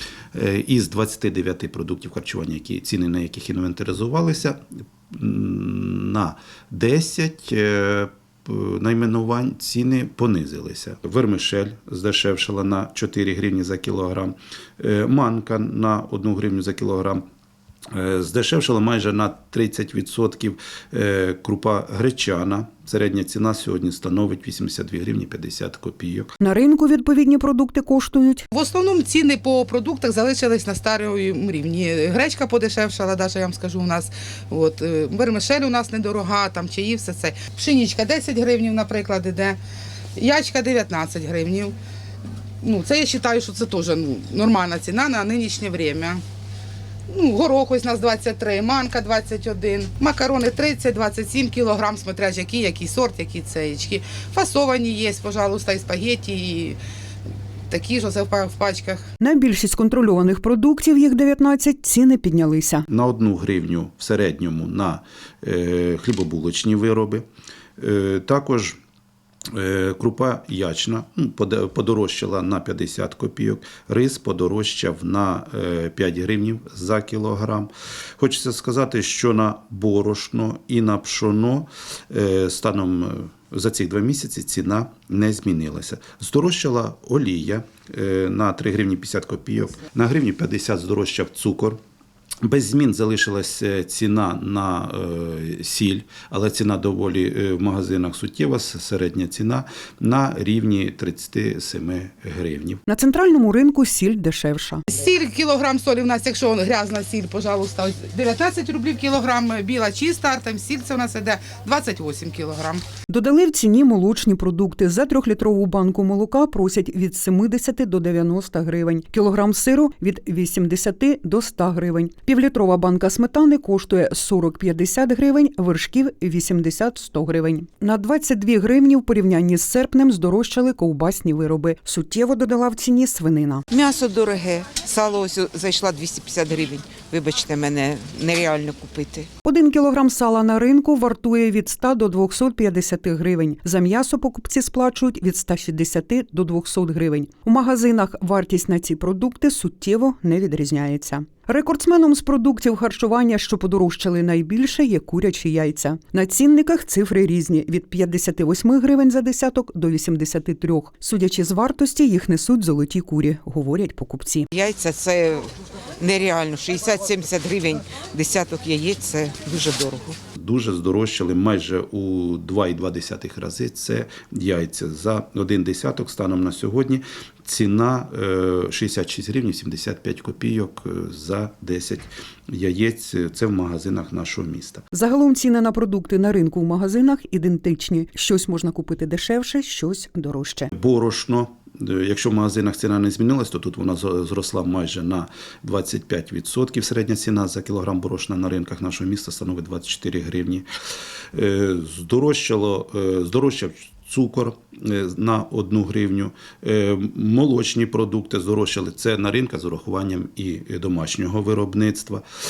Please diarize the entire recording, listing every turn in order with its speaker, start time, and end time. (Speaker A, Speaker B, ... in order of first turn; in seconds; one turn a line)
Speaker A: 0.3-17.2
Speaker A: 17.9-26.3
Speaker B: 26.4-28.4
Speaker C: 28.5-39.6
Speaker C: 40.2-41.7
Speaker C: 42.6-46.2
Speaker C: 47.1-56.8
Speaker C: 57.7-59.0
Speaker B: 59.2-62.9
Speaker A: 62.9-67.2
Speaker A: 67.8-68.8
Speaker A: 69.5-91.8
Speaker A: 92.4-102.8
Speaker B: 102.9-104.8
Speaker C: 104.9-112.8
Speaker B: 113.1-133.6
Speaker D: 133.7-139.3
Speaker B: 139.4-164.5
Speaker D: 164.5-170.2
Speaker A: 170.3-184.8
Speaker B: 184.9-190.7
Speaker A: 190.7-200.6
Speaker A: 201.3-212.2